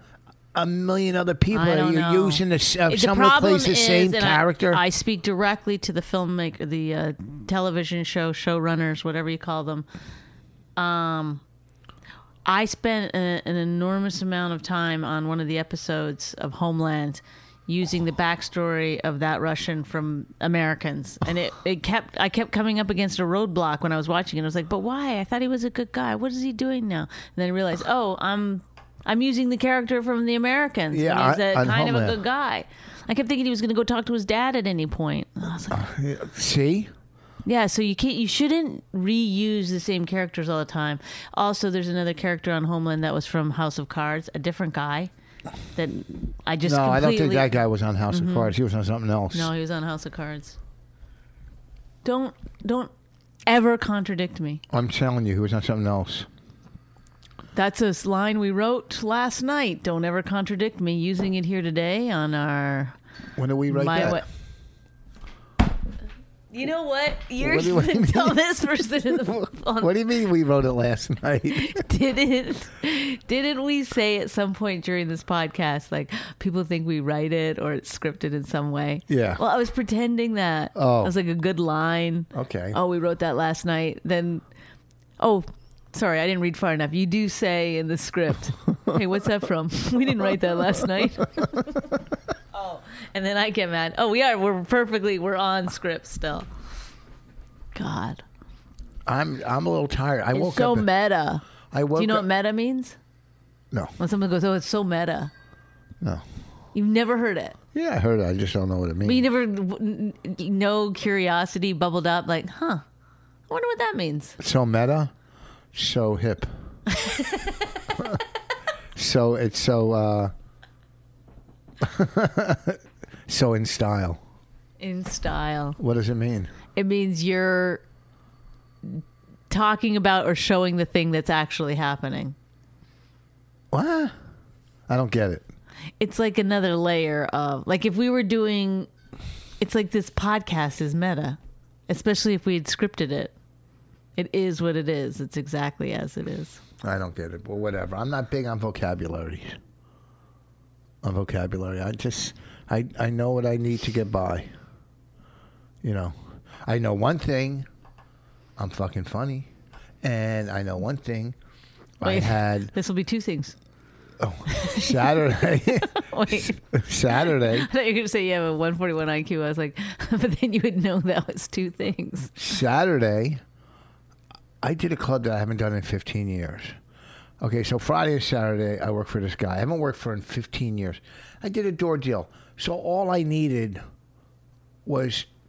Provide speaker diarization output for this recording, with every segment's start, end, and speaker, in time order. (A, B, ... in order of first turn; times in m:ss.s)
0:00.5-0:04.8 A
0:01.5-0:09.9 B
0:10.8-0:11.4 B
0:12.4-0:35.9 B
0:30.9-0:32.2 A
0:35.7-0:36.9 A
0:37.4-0:45.1 B
0:45.7-0:47.6 B
0:46.6-0:49.5 A
0:48.1-0:48.5 B
0:49.3-0:50.6 B
0:52.0-0:52.9 B
0:53.5-0:54.6 B
0:54.7-0:56.3 A
0:57.5-1:03.0 B
1:03.4-1:04.2 A
1:03.7-1:04.2 B
1:06.5-1:09.9 B
1:07.4-1:08.4 A
1:09.3-1:11.8 A
1:11.5-1:24.4 B
1:19.1-1:19.4 A
1:20.7-1:21.1 A
1:22.3-1:22.8 A
1:25.2-1:31.9 B
1:32.5-1:36.5 B
1:37.7-1:38.2 B
1:39.1-1:40.9 A
1:40.3-1:41.4 B
1:41.7-1:42.3 A
1:42.0-1:43.0 B
1:44.0-1:45.3 B
1:46.7-1:47.6 B
1:47.7-1:49.2 A
1:49.0-1:52.8 B
1:53.5-1:54.4 B
1:54.4-1:55.1 A
1:55.7-1:56.5 A
1:57.0-1:57.4 B
1:59.0-2:00.3 A
2:01.8-2:04.2 A
2:04.8-2:05.8 B
2:05.8-2:06.5 A
2:06.7-2:07.8 B
2:08.8-2:12.4 B
2:13.7-2:14.1 A
2:14.9-2:15.4 A
2:16.0-2:18.9 B
2:19.6-2:23.3 B
2:24.2-2:26.6 B
2:26.8-2:29.6 A
2:31.0-2:34.5 A
2:35.8-2:37.7 A
2:38.6-2:39.5 A
2:40.0-2:41.4 A
2:42.0-2:42.7 A
2:42.0-2:43.6 B
2:44.2-2:47.7 A
2:44.5-2:46.6 B
2:47.1-2:52.3 B
2:52.4-2:53.4 A
2:54.6-2:56.7 A
2:57.4-3:03.8 A
3:04.9-3:05.3 A